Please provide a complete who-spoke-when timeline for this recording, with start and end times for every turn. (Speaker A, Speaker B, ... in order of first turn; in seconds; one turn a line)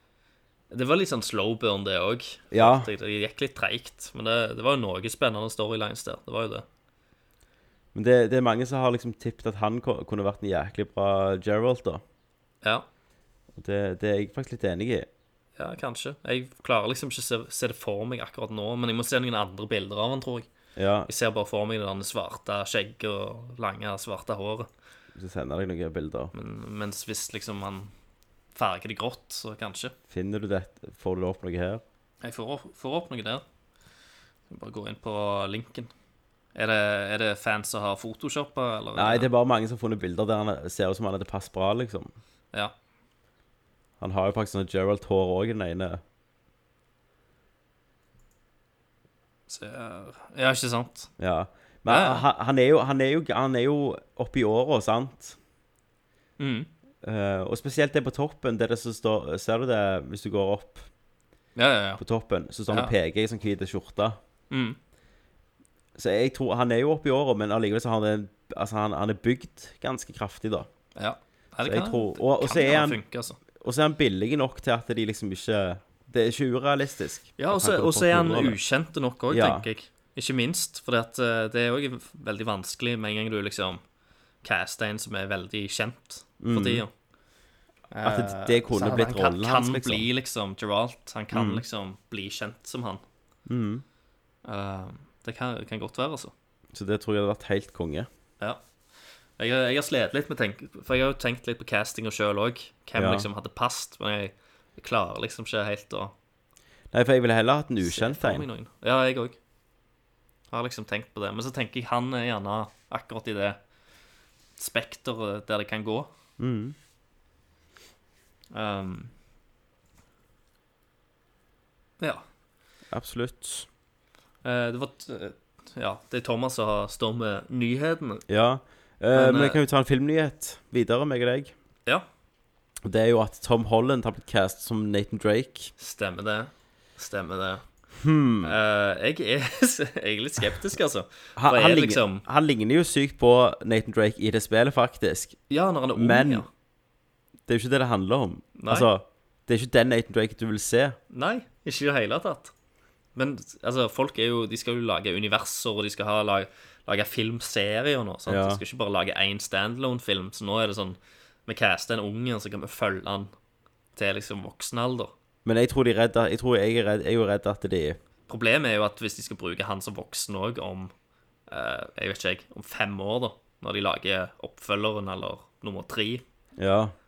Speaker A: 0.7-6.6
Speaker B: 2.5-2.9
Speaker B: 7.9-12.0
Speaker B: 13.5-15.1
Speaker A: 15.6-20.5
Speaker B: 20.8-21.1
Speaker A: 21.1-24.7
Speaker B: 25.1-26.3
Speaker A: 26.3-27.9
Speaker A: 28.5-29.9
Speaker B: 30.1-31.8
Speaker A: 32.2-33.4
Speaker A: 34.5-35.9
Speaker A: 36.5-39.3
Speaker B: 38.9-42.1
Speaker B: 44.0-46.0
Speaker A: 49.5-51.1
Speaker B: 51.2-55.4
Speaker A: 51.9-52.2
Speaker A: 56.4-56.7
Speaker B: 57.0-60.9
Speaker A: 61.5-62.0
Speaker B: 62.0-64.2
Speaker A: 62.7-62.9
Speaker A: 64.5-64.8
Speaker B: 66.0-70.7
Speaker A: 71.0-73.4
Speaker B: 71.6-73.0
Speaker B: 73.6-78.6
Speaker A: 77.4-83.8
Speaker B: 79.3-79.7
Speaker A: 84.4-86.9
Speaker B: 86.4-86.8
Speaker A: 87.9-93.0
Speaker B: 88.0-90.1
Speaker B: 91.3-91.6
Speaker B: 93.5-93.8
Speaker A: 94.4-96.3
Speaker B: 96.7-98.1
Speaker A: 99.4-106.1
Speaker B: 102.9-103.3
Speaker B: 106.9-108.5
Speaker A: 107.8-109.3
Speaker A: 110.5-113.6
Speaker A: 114.6-116.1
Speaker B: 116.4-116.8
Speaker A: 118.5-119.1
Speaker A: 122.0-122.2
Speaker B: 122.9-123.7
Speaker A: 124.4-128.2
Speaker B: 128.3-131.5
Speaker A: 129.1-129.6
Speaker B: 132.8-135.7
Speaker A: 135.8-137.6
Speaker B: 138.0-138.6
Speaker A: 138.4-142.2
Speaker B: 141.4-145.4
Speaker A: 145.5-146.5
Speaker B: 145.9-146.5
Speaker B: 147.5-151.0
Speaker A: 148.6-148.9
Speaker A: 151.1-152.5
Speaker A: 153.1-163.3
Speaker B: 158.3-158.6
Speaker A: 163.9-165.1
Speaker B: 165.4-168.0
Speaker A: 168.3-170.9
Speaker A: 171.5-176.2
Speaker B: 176.6-176.9